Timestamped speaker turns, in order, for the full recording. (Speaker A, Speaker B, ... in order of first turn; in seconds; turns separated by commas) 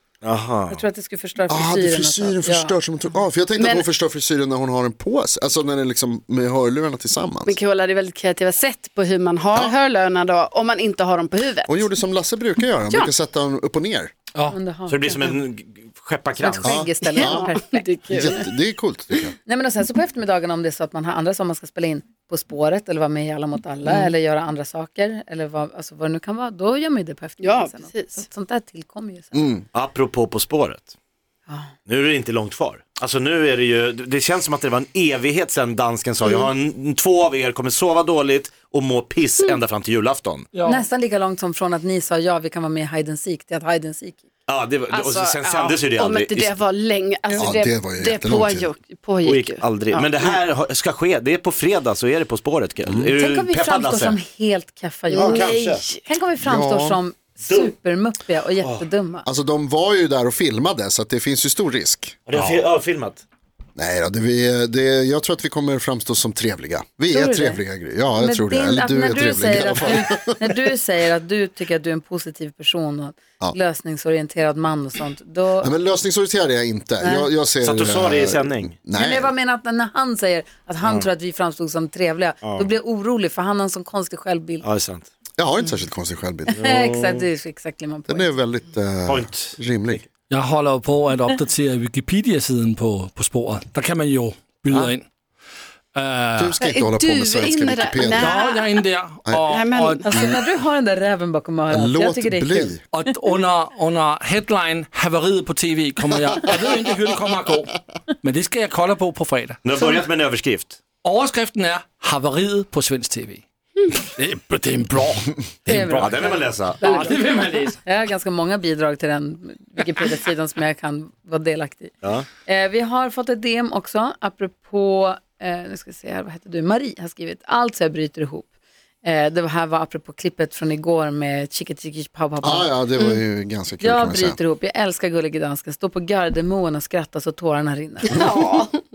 Speaker A: 0.2-0.8, Speaker B: 0.7-2.8, Speaker C: 1.5-7.6, Speaker D: 3.6-3.9, Speaker D: 7.5-11.9, Speaker C: 11.7-14.1, Speaker B: 14.5-15.4, Speaker A: 14.9-16.9, Speaker B: 16.4-18.4, Speaker C: 16.6-17.5, Speaker D: 17.0-18.5, Speaker C: 18.1-19.3, Speaker B: 19.4-29.5, Speaker D: 27.4-28.2, Speaker C: 29.3-29.6, Speaker A: 29.7-30.9, Speaker A: 31.9-40.5, Speaker D: 36.2-36.5, Speaker E: 40.5-40.8, Speaker B: 40.6-44.2, Speaker A: 44.5-46.6, Speaker D: 44.9-50.4, Speaker C: 47.4-48.7, Speaker A: 49.2-54.2, Speaker B: 53.1-59.2, Speaker D: 55.1-56.0, Speaker A: 55.2-55.9, Speaker C: 56.4-57.0, Speaker A: 57.5-57.7, Speaker C: 59.2-62.6, Speaker A: 62.3-63.2, Speaker C: 63.8-70.5, Speaker B: 67.1-67.6, Speaker B: 68.2-75.7, Speaker C: 75.6-79.3, Speaker B: 77.0-77.3, Speaker A: 77.6-78.8, Speaker B: 78.9-84.6, Speaker A: 80.8-81.1, Speaker A: 82.4-82.7, Speaker A: 84.6-85.1, Speaker C: 85.4-86.6, Speaker B: 86.5-88.3, Speaker A: 86.5-87.2, Speaker C: 88.1-90.0, Speaker A: 89.0-90.0, Speaker E: 90.3-95.0, Speaker E: 95.9-96.6, Speaker C: 96.4-98.4, Speaker D: 96.6-98.8, Speaker E: 98.0-100.0, Speaker D: 99.5-100.0, Speaker B: 100.0-102.8, Speaker C: 100.1-100.3, Speaker C: 101.7-102.8, Speaker E: 102.9-109.6, Speaker A: 109.6-110.8, Speaker E: 111.0-117.8, Speaker B: 115.7-128.5, Speaker A: 116.0-116.8, Speaker B: 129.0-132.8, Speaker C: 132.4-134.4, Speaker B: 133.8-138.2, Speaker D: 138.1-138.8